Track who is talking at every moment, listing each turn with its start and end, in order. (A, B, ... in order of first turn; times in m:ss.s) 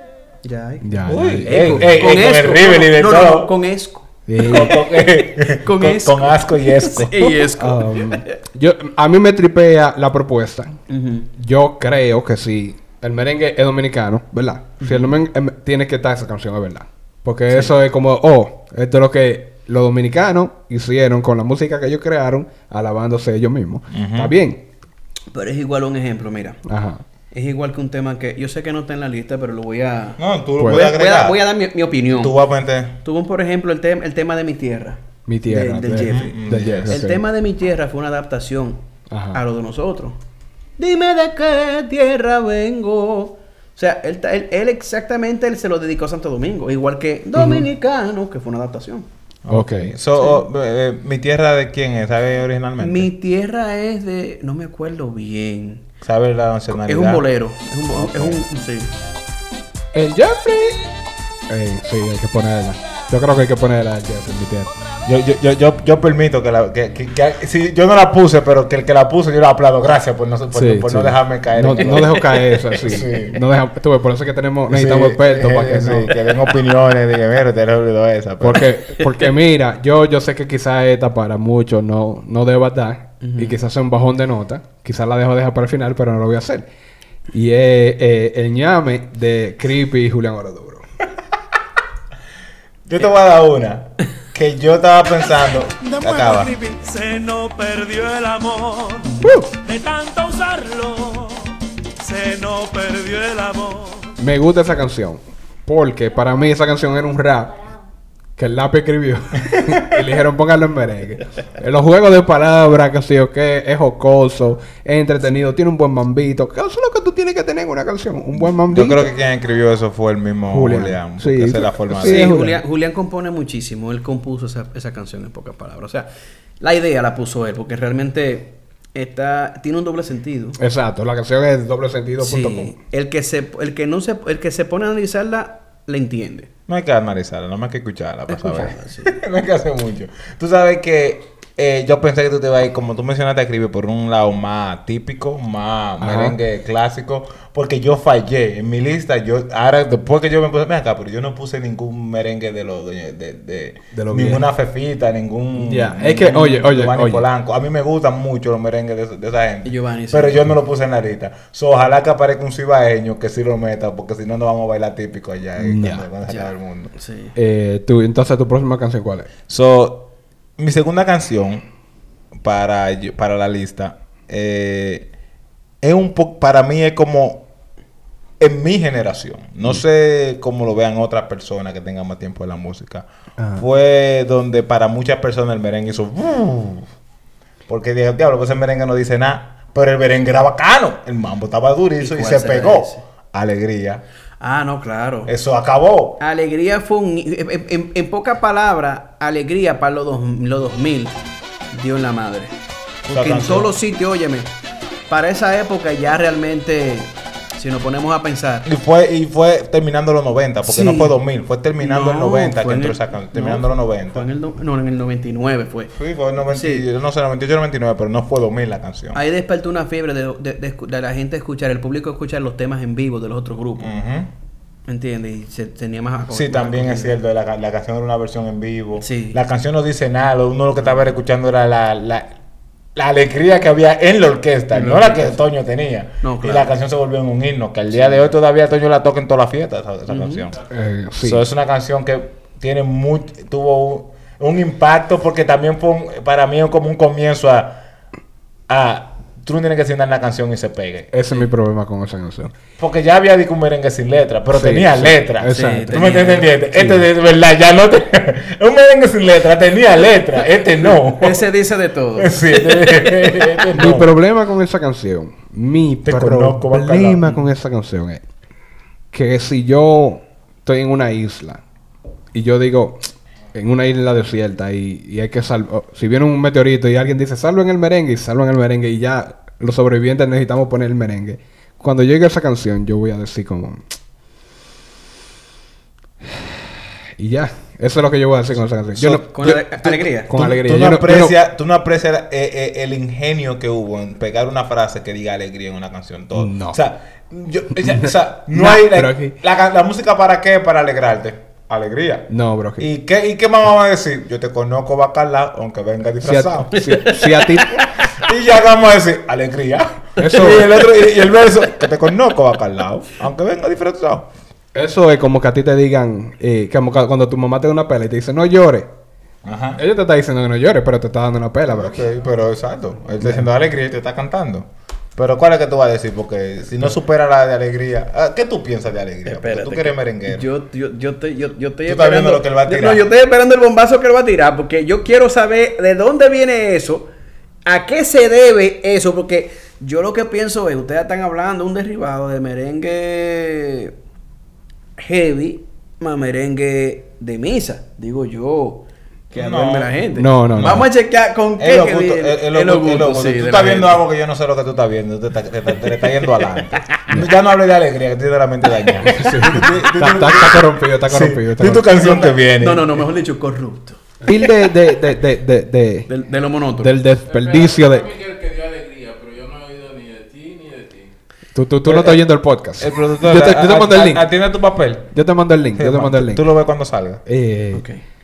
0:00.4-0:08.4 A
0:00.8-0:01.9 B
0:01.1-0:03.5 C
0:04.3-0:04.8 B
0:04.4-0:07.5 C
0:07.6-0:10.8 B
0:10.9-0:11.3 A
0:11.4-0:24.6 B
0:14.8-0:15.1 A
0:17.5-0:17.7 A
0:23.9-0:24.3 C
0:25.3-0:26.6 A
0:26.6-0:27.0 B
0:27.3-0:32.3 A
0:30.2-0:31.4 C
0:30.6-0:30.9 B
0:32.1-0:33.0 C
0:33.0-0:36.4 A
0:35.3-0:37.2 B
0:35.9-0:37.0 C
0:36.9-0:38.8 A
0:39.1-0:39.4 B
0:39.3-0:40.2 A
0:40.8-0:49.1 A
0:47.4-0:47.7 B
0:49.4-0:53.1 C
0:49.5-0:49.9 B
0:52.8-0:55.8 A
0:56.0-0:57.2 C
0:56.7-0:58.9 A
0:57.9-0:58.4 C
0:59.9-1:00.8 B
1:01.5-1:04.8 B
1:05.0-1:13.4 C
1:10.5-1:16.1 B
1:14.7-1:18.7 C
1:18.4-1:26.7 B
1:23.2-1:23.6 A
1:27.3-1:30.8 B
1:32.9-1:36.5 C
1:35.8-1:44.1 D
1:39.2-1:39.5 B
1:44.2-1:47.6 B
1:48.4-1:59.1 B
1:58.7-2:02.4 C
2:00.5-2:02.6 B
2:01.9-2:06.1 A
2:06.6-2:10.6 A
2:10.6-2:12.8 B
2:12.2-2:16.5 A
2:16.7-2:46.9 C
2:18.3-2:19.1 A
2:26.0-2:26.4 B
2:33.9-2:34.4 B
2:35.6-2:37.3 B
2:39.6-2:40.5 A
2:45.6-2:46.0 B
2:46.3-2:47.3 A
2:47.4-2:49.3 B
2:49.5-2:51.6 C
2:52.4-2:55.1 C
2:55.8-2:57.4 C
2:58.4-3:06.9 C
3:03.4-3:03.6 B
3:07.7-3:14.0 C
3:12.0-3:13.0 A
3:14.4-3:15.3 A
3:15.3-3:16.2 C
3:16.2-3:21.2 A
3:21.7-3:22.5 A
3:23.1-3:23.7 C
3:23.1-3:24.5 A
3:25.1-3:28.7 A
3:28.6-3:34.3 C
3:30.6-3:31.2 A
3:31.8-3:35.9 A
3:35.9-3:39.2 C
3:36.4-3:36.8 A
3:39.1-3:43.9 A
3:43.8-3:44.3 C
3:44.9-3:47.1 A
3:46.3-3:52.3 C
3:49.0-3:49.4 A
3:53.0-4:00.6 C
3:54.7-3:55.4 A
3:56.2-3:56.7 A
3:57.9-3:58.3 A
4:00.1-4:00.5 A
4:00.7-4:01.4 B
4:01.2-4:07.8 C
4:08.7-4:11.1 C
4:11.1-4:12.5 B
4:12.8-4:21.4 C
4:14.5-4:16.0 B
4:15.5-4:16.5 A
4:16.7-4:17.1 B
4:20.9-4:23.6 A
4:22.2-4:24.1 C
4:23.7-4:28.2 B
4:26.0-4:27.4 C
4:29.1-4:31.6 B
4:32.3-4:43.8 B
4:46.3-4:46.6 B
4:47.2-4:49.6 B
4:49.0-4:50.3 A
4:49.1-5:06.8 C
4:50.2-4:51.4 B
4:56.3-4:56.8 B
4:57.8-4:59.4 B
5:02.3-5:02.9 B
5:06.2-5:07.8 B
5:06.7-5:07.9 A
5:08.0-5:14.3 C
5:10.2-5:10.9 B
5:10.4-5:11.3 A
5:14.7-5:18.9 B
5:19.4-5:19.8 C
5:19.8-5:22.0 B
5:21.7-5:30.5 C
5:23.2-5:23.5 B
5:29.2-5:37.1 A
5:31.8-5:33.1 C
5:37.6-5:43.9 A
5:45.0-5:54.0 A
5:49.3-5:49.9 C
5:50.1-5:50.9 B
5:51.6-6:03.0 C
5:59.0-6:01.9 B
6:01.9-6:04.1 A
6:04.2-6:06.1 B
6:06.1-6:07.0 A
6:06.8-6:08.1 B
6:07.3-6:11.1 E
6:11.5-6:14.3 B
6:11.8-6:12.2 C
6:12.8-6:15.1 C
6:15.1-6:16.4 B
6:15.7-6:17.2 C
6:17.2-6:17.8 B
6:17.7-6:18.0 A